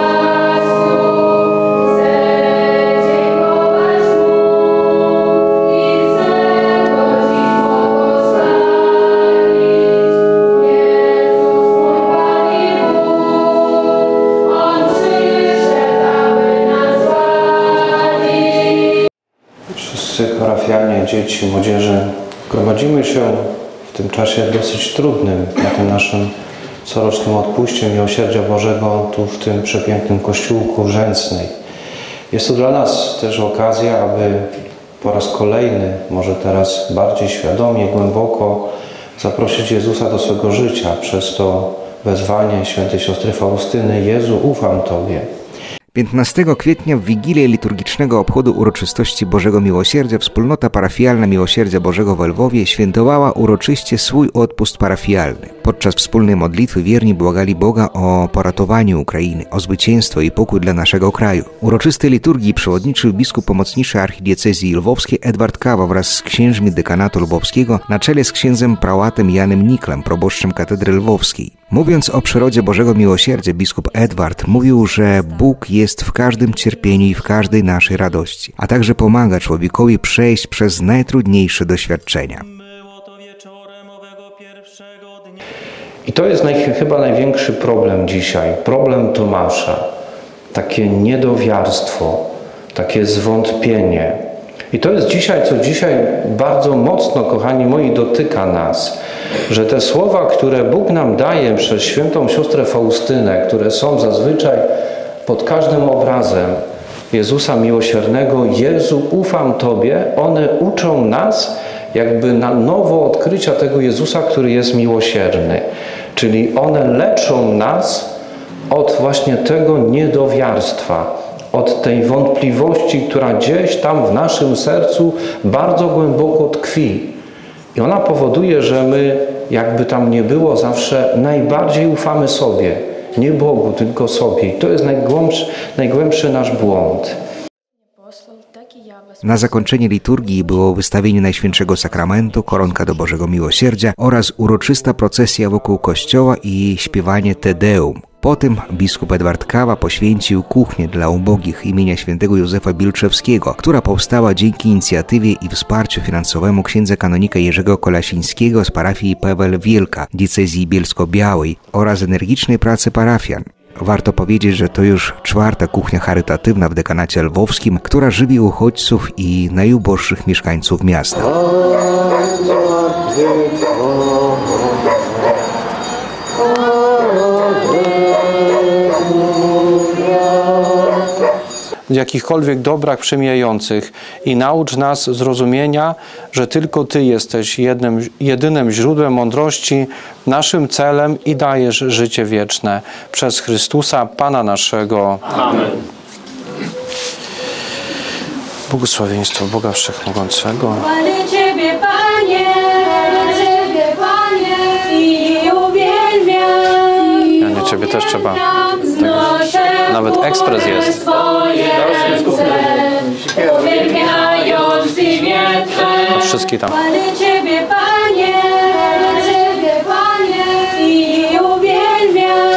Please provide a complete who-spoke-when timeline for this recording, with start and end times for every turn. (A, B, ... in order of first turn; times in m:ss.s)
0:19.7-0:26.3 A
0:26.8-0:31.5 A
0:32.3-0:45.3 A
0:45.9-1:22.4 B
1:26.0-1:29.8 A
1:30.5-1:39.0 A
1:39.5-1:44.6 A
1:45.2-1:58.1 A
1:58.7-2:07.1 A
2:07.7-2:17.2 A
2:19.2-2:51.4 B
3:01.9-3:15.4 A
3:18.7-3:21.2 A
3:21.8-3:26.5 C
3:27.1-3:32.2 A
3:31.8-3:35.4 C
3:35.9-3:37.0 A
3:37.4-3:42.4 C